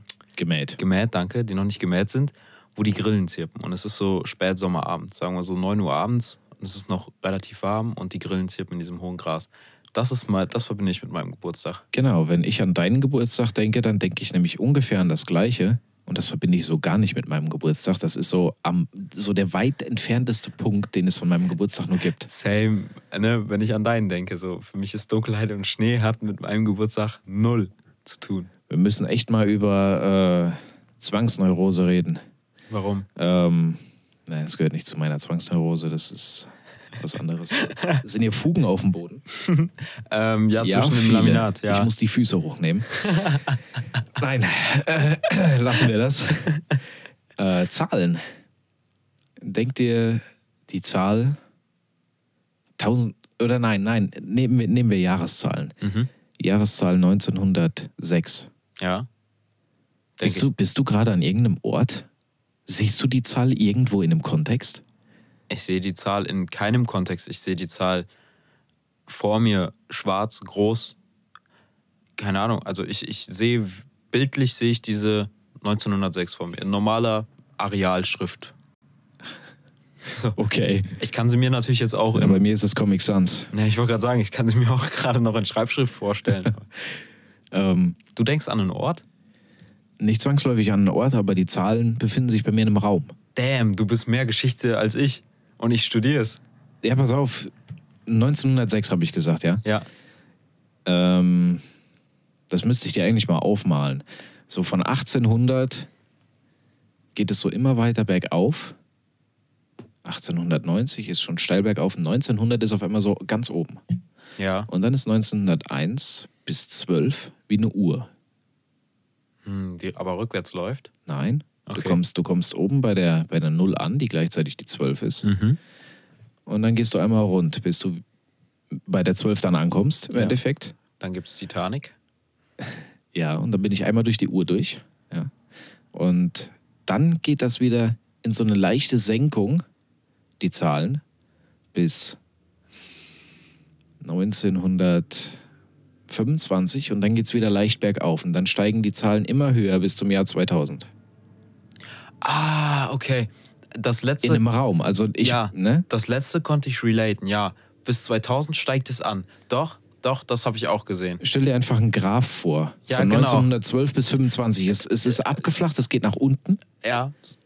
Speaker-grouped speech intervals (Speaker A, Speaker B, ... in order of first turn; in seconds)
Speaker A: 0.4-0.8, 11.9-22.3, 28.7-32.2, 33.1-39.2, 40.6-42.9, 44.2-46.6, 47.4-48.2, 49.4-51.4, 52.8-55.7, 56.4-58.5, 60.2-62.1, 62.7-64.8, 80.3-81.0, 82.1-83.5, 87.5-88.0, 90.0-93.1, 96.8-97.5, 98.1-99.6, 100.8-101.6, 102.5-105.9, 107.1-108.7, 110.0-113.8, 114.7-118.1, 121.0-125.3, 126.5-128.0, 128.8-130.7, 133.1-135.3, 135.9-139.6, 140.4-141.0, 141.7-142.2, 144.0-145.4, 146.1-150.9, 154.2-155.8, 161.2-166.6
Speaker B: 0.8-11.8, 22.2-28.5, 32.7-33.1, 39.4-41.9, 42.9-43.6, 55.8-56.1, 58.8-59.1, 60.2-60.5, 65.5-68.1, 69.1-71.0, 72.2-78.5, 80.0-80.3, 81.0-82.4, 83.5-86.7, 88.1-89.0, 93.3-96.4, 114.4-114.7, 119.4-120.9, 121.7-122.0, 125.2-125.6, 131.0-131.9, 152.2-154.4, 155.2-161.2, 162.9-163.5, 166.8-167.3